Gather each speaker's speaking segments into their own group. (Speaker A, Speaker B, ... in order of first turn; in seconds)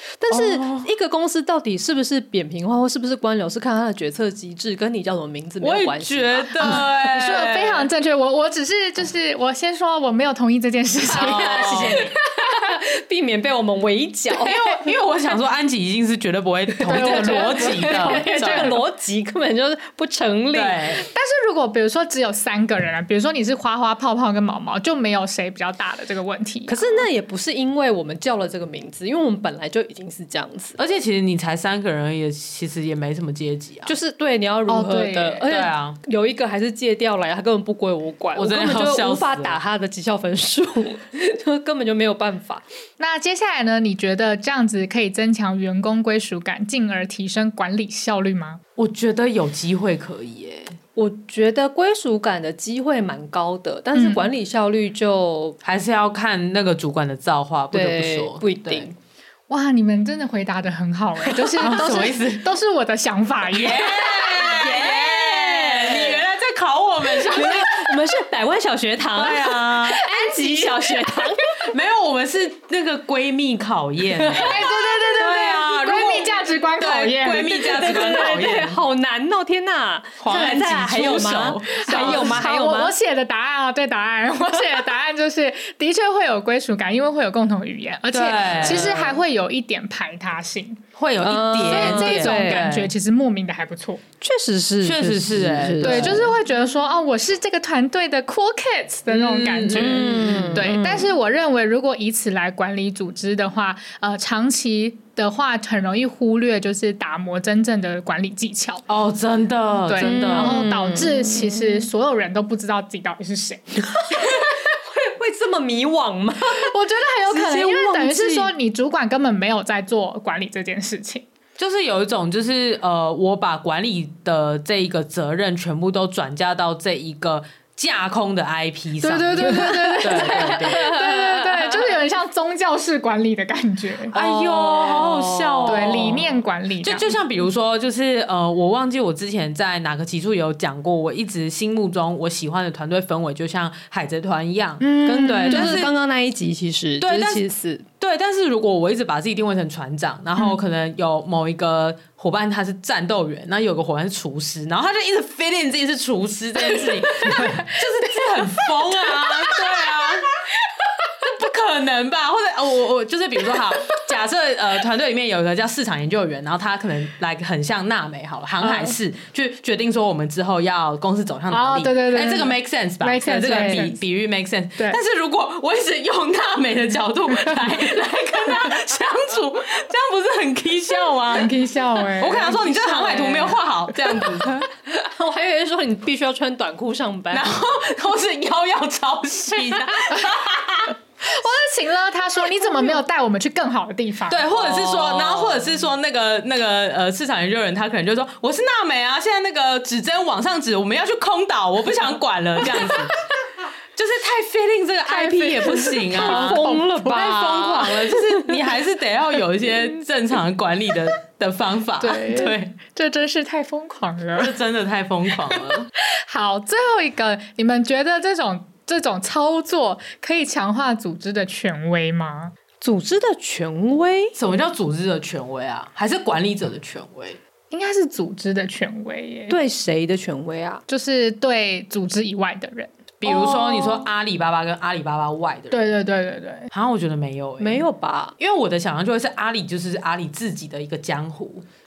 Speaker A: 0.2-6.9, 11.1-14.6, 16.8-21.0, 26.7-30.8, 33.9-42.6, 51.0-55.6, 57.7-58.9, 63.9-66.2, 67.1-71.7, 74.1-75.6, 77.4-82.9, 88.6-88.9, 91.2-92.7, 94.2-96.3, 99.7-101.1, 110.0-111.9, 114.1-116.7, 117.2-118.5, 129.4-131.7, 134.1-136.2, 145.1-147.8, 173.4-173.9, 183.0-183.5, 184.1-187.6, 194.5-195.8, 205.1-208.8, 222.8-224.3, 229.5-230.8, 237.6-238.3
Speaker B: 0.3-0.9, 5.6-7.9, 11.1-12.0, 14.4-18.8, 20.5-21.0, 30.8-34.0, 35.5-36.0, 38.4-39.6, 48.8-50.8, 55.6-58.9, 61.6-62.5, 63.5-68.0, 69.1-70.0, 71.7-78.8, 80.2-82.5, 88.1-89.2, 91.0-92.9, 94.8-96.3, 99.1-100.7, 108.9-110.6, 121.6-130.9, 134.1-145.9, 147.0-147.4, 148.0-160.4, 161.2-184.7, 187.3-190.9, 194.3-203.1, 203.9-212.7, 214.3-215.9, 224.3-227.4, 233.2-235.9, 236.7-237.8, 238.4-241.7
Speaker C: 6.6-12.1, 16.9-18.8, 21.1-27.1, 34.7-35.5, 43.0-48.6, 53.9-54.3, 59.5-64.1, 70.2-71.1, 74.4-77.7, 81.7-90.8, 91.6-94.0, 95.8-108.8, 109.8-114.5, 116.5-121.3, 129.0-134.1, 135.7-137.2, 144.8-145.8, 156.8-157.8, 168.6-168.9, 171.5-174.0, 181.3-183.3, 191.2-194.4, 206.1-207.0, 212.0-214.5, 216.0-222.5, 227.7-229.6, 230.9-234.1, 235.7-236.7